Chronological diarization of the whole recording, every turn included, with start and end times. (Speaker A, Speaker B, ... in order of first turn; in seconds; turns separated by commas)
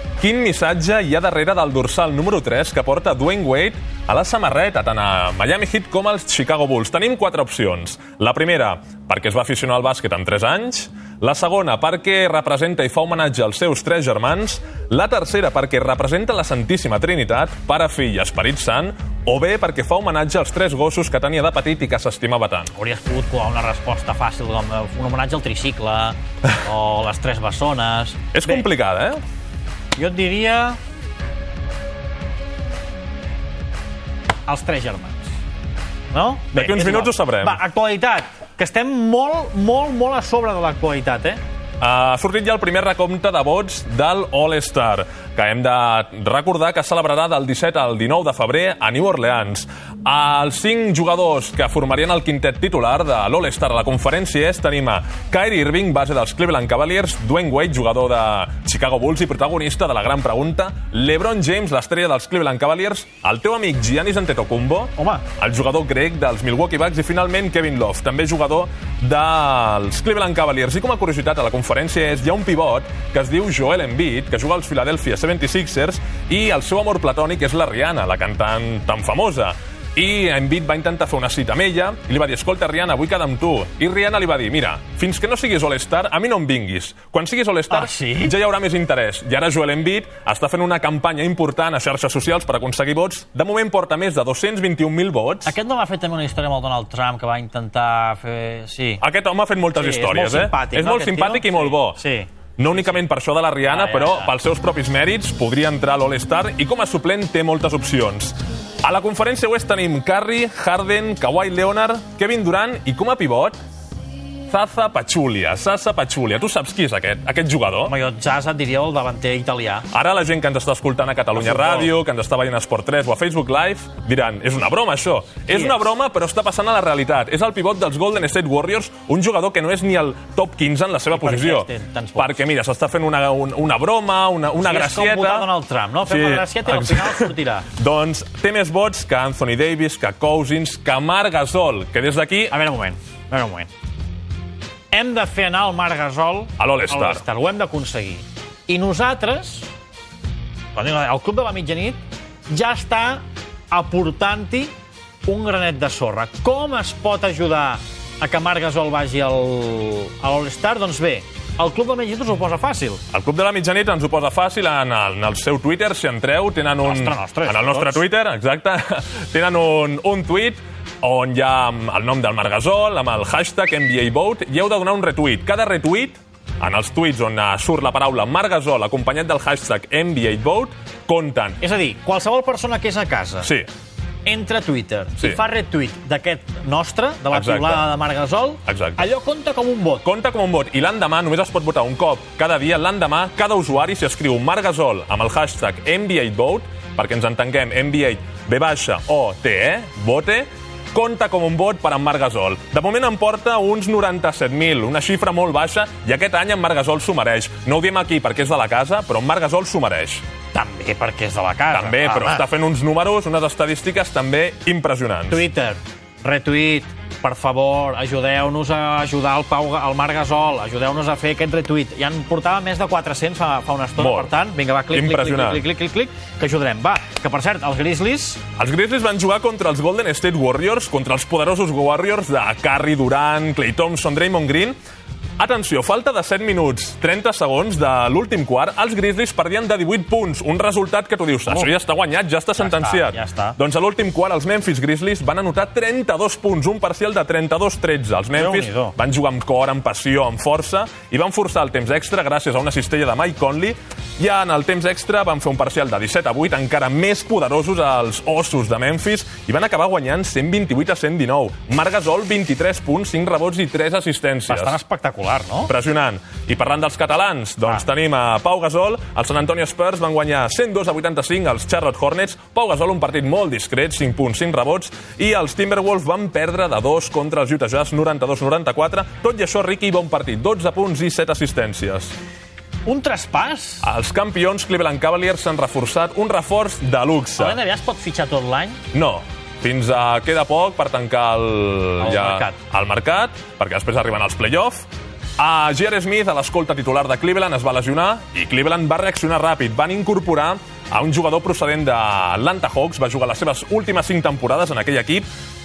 Speaker A: 0.2-22.7, Speaker B: 22.7-28.7, Speaker A: 28.3-29.2, Speaker B: 30.0-30.8, Speaker B: 34.5-35.3, Speaker B: 36.1-41.4, Speaker A: 36.5-37.6, Speaker A: 41.8-95.6, Speaker B: 65.0-65.2, Speaker B: 87.7-88.3, Speaker B: 95.5-99.0, Speaker A: 99.0-102.0, Speaker B: 99.7-102.3, Speaker A: 102.6-113.6, Speaker B: 103.7-104.3, Speaker A: 114.5-117.9, Speaker B: 117.8-119.9, Speaker A: 119.9-135.5, Speaker B: 121.4-121.9, Speaker B: 125.5-125.8, Speaker B: 131.1-132.4, Speaker B: 134.6-137.7, Speaker A: 136.0-142.5, Speaker B: 142.5-143.7, Speaker B: 144.9-149.7, Speaker A: 146.6-147.2, Speaker B: 150.8-154.7, Speaker B: 155.3-163.0, Speaker A: 163.1-181.6, Speaker B: 166.8-168.0, Speaker B: 181.6-183.5, Speaker A: 183.4-183.7, Speaker B: 184.2-190.1, Speaker A: 187.3-187.8, Speaker A: 188.7-189.1, Speaker A: 190.0-210.2, Speaker B: 210.5-212.4, Speaker A: 211.7-215.4, Speaker B: 215.3-228.4, Speaker A: 224.0-224.3, Speaker A: 224.9-225.6, Speaker A: 228.6-234.8, Speaker A: 235.4-264.8, Speaker B: 242.6-243.6, Speaker B: 248.3-248.9, Speaker B: 264.5-265.7, Speaker A: 265.6-282.1, Speaker B: 282.9-283.9, Speaker A: 283.8-287.6, Speaker B: 287.4-288.8, Speaker A: 288.9-305.3, Speaker B: 292.0-292.6